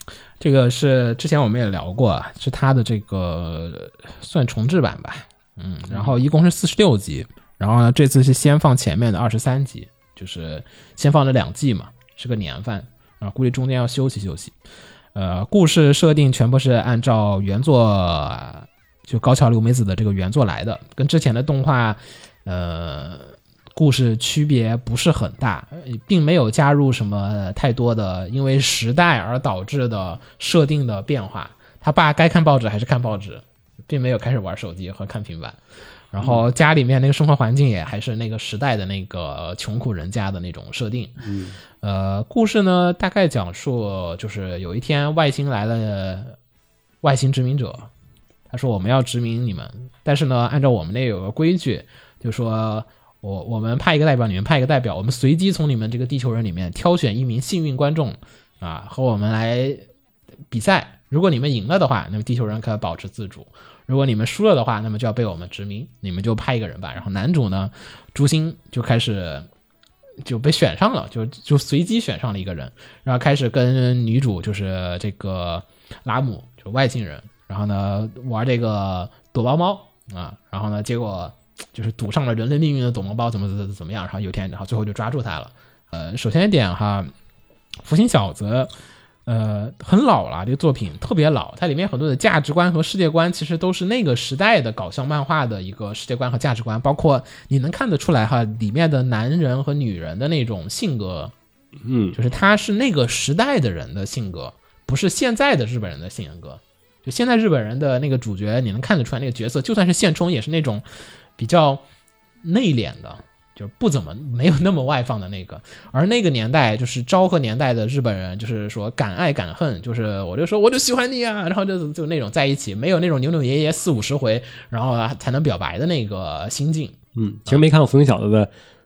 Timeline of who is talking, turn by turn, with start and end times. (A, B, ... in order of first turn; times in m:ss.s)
0:00.4-0:14.5 A
0:15.2-0:35.6 A
0:36.1-0:41.2 A
0:41.2-0:41.6 B
0:41.8-0:46.4 A
0:47.0-0:47.9 A
0:48.5-0:59.8 A
1:00.5-1:09.5 A
1:10.2-1:27.1 A
1:27.8-1:28.7 A
1:29.3-1:41.3 A
1:41.8-1:42.2 B
1:42.1-1:50.8 A
1:51.4-1:51.8 A
1:52.4-2:07.0 A
2:07.2-2:08.5 B